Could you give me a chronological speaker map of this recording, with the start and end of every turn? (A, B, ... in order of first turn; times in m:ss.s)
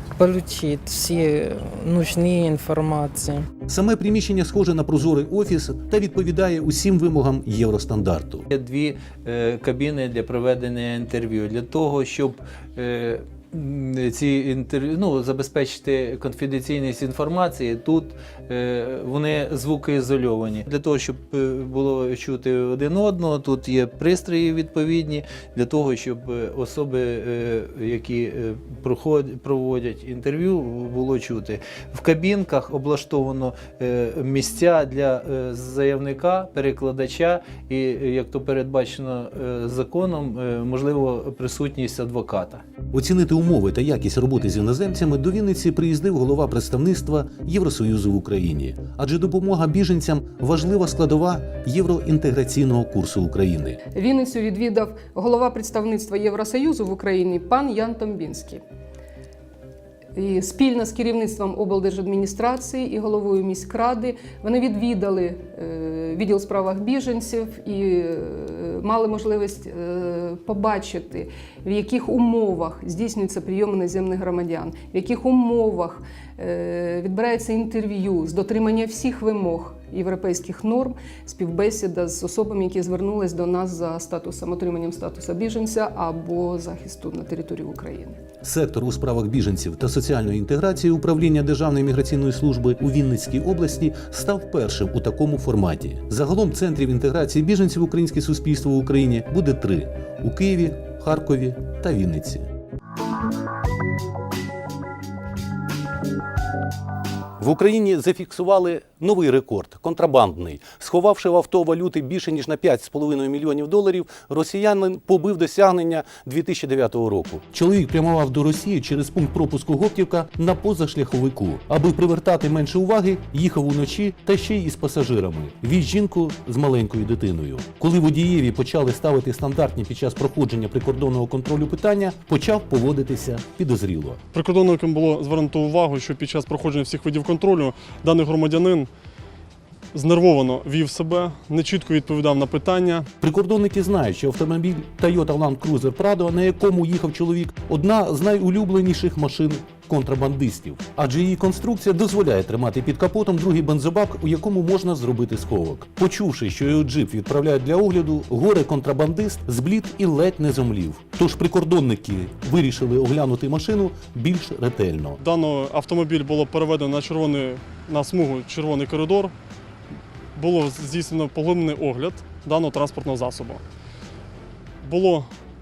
0:00.2-0:03.5 A
0:03.7-0:08.5 B
0:08.5-0:42.6 C
0:42.9-0:53.8 B
0:53.9-0:58.6 D
1:00.2-1:28.2 D
1:28.4-1:42.5 B
1:47.4-2:14.2 B
2:14.3-2:18.9 E
2:19.9-2:23.1 E
2:23.2-2:45.2 B
2:45.2-2:49.3 E
2:50.4-2:53.6 E
2:54.8-2:55.3 E